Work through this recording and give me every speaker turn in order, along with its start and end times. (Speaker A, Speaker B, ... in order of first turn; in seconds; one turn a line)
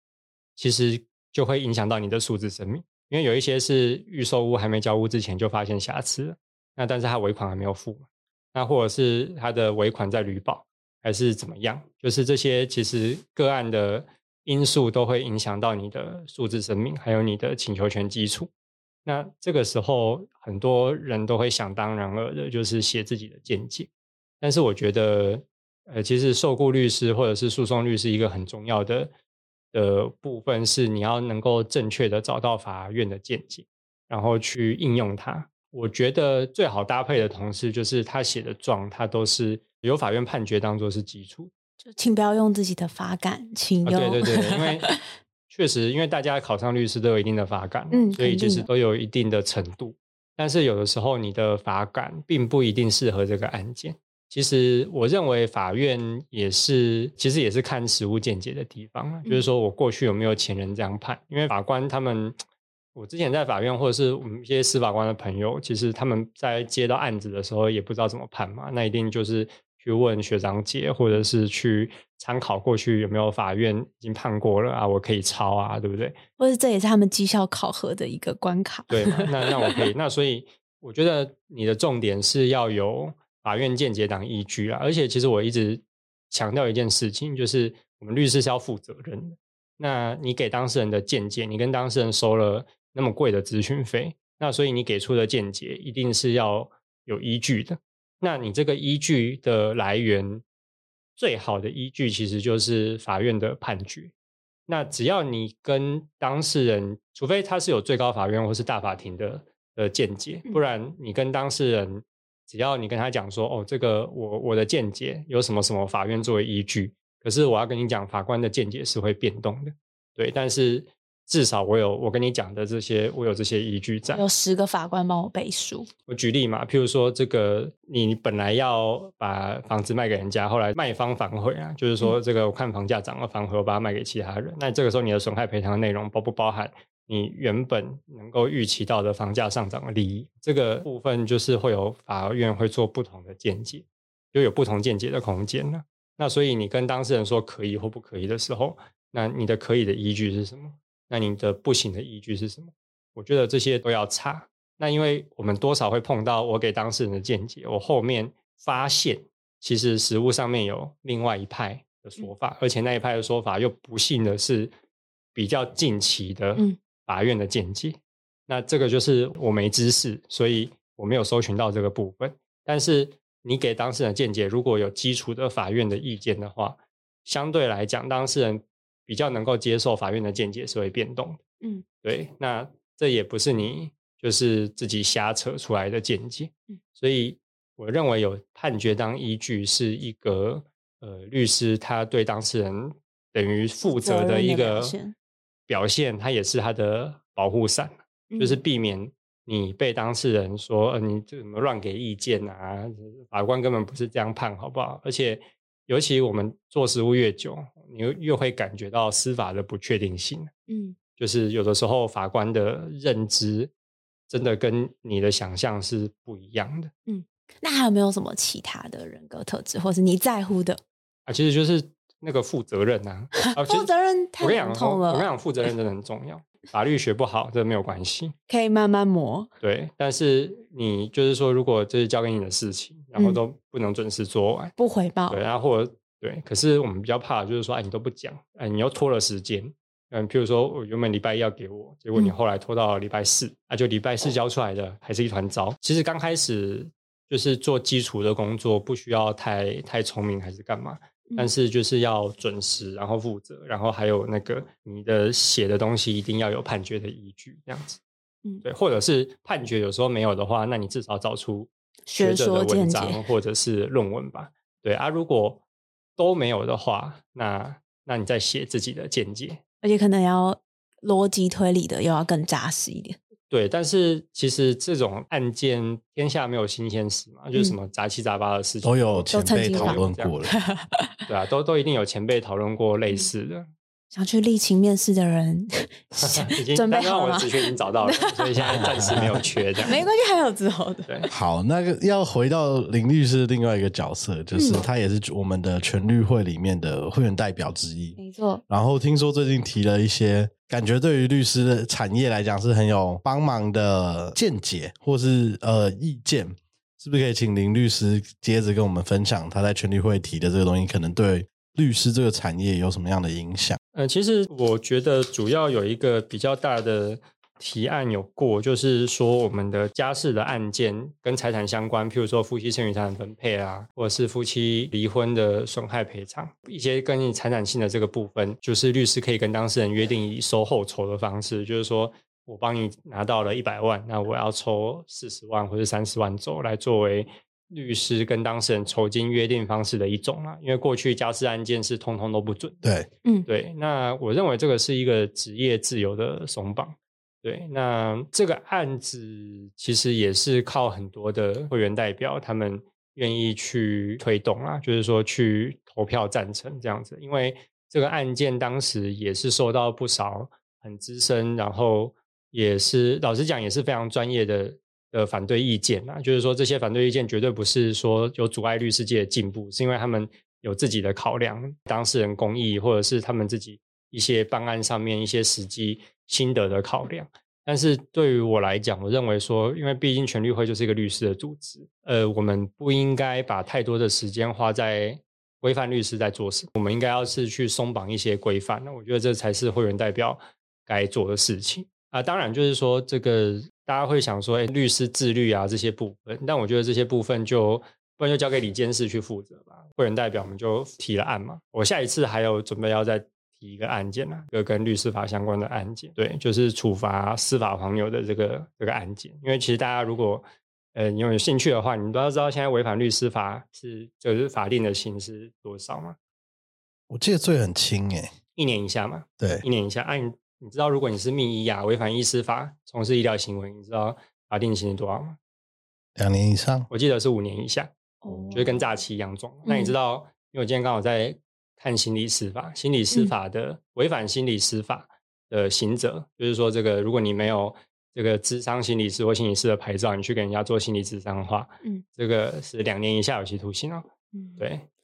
Speaker A: 0.6-18.5
Speaker A: 19.0-23.9
Speaker A: 24.4-29.1
Speaker A: 29.7-41.5
Speaker B: 41.8-45.0
Speaker A: 43.9-44.9
Speaker A: 45.5-62.4
Speaker B: 47.9-48.7
Speaker A: 62.9-76.2
Speaker B: 76.4-79.8
Speaker A: 78.9-100.4
Speaker A: 101.2-104.1
Speaker A: 104.7-124.2
Speaker B: 124.1-125.9
Speaker A: 126.1-164.7
Speaker A: 165.3-181.4
Speaker A: 182.0-194.9
Speaker B: 193.8-195.1
Speaker A: 195.7-210.5
Speaker B: 198.3-198.6
Speaker B: 210.7-210.9
Speaker A: 211.2-213.7
Speaker A: 214.3-216.9
Speaker B: 217.1-220.8
Speaker A: 221.2-223.9
Speaker B: 223.5-225.3
Speaker A: 224.4-228.3
Speaker B: 228.5-229.5
Speaker A: 229.6-234.7
Speaker B: 233.2-233.4
Speaker B: 234.8-235.4
Speaker A: 235.3-258.0
Speaker A: 258.6-265.6
Speaker B: 262.1-263.2
Speaker A: 266.2-269.6
Speaker B: 269.8-273.2
Speaker A: 273.5-280.3
Speaker C: 278.8-280.5
Speaker B: 279.3-281.2
Speaker A: 281.3-283.7
Speaker B: 284.1-288.8
Speaker A: 286.2-290.0
Speaker C: 288.6-289.4
Speaker B: 289.8-291.3
Speaker C: 291.3-298.2
Speaker B: 294.5-294.8
Speaker B: 298.2-298.6
Speaker C: 298.7-313.8
Speaker A: 313.9-342.8
Speaker A: 343.5-416.1
Speaker C: 417.1-418.3
Speaker A: 418.5-425.4
Speaker C: 419.4-419.6
Speaker C: 426.1-426.9
Speaker A: 426.9-444.8
Speaker B: 428.2-428.9
Speaker B: 429.6-429.9
Speaker B: 444.3-444.6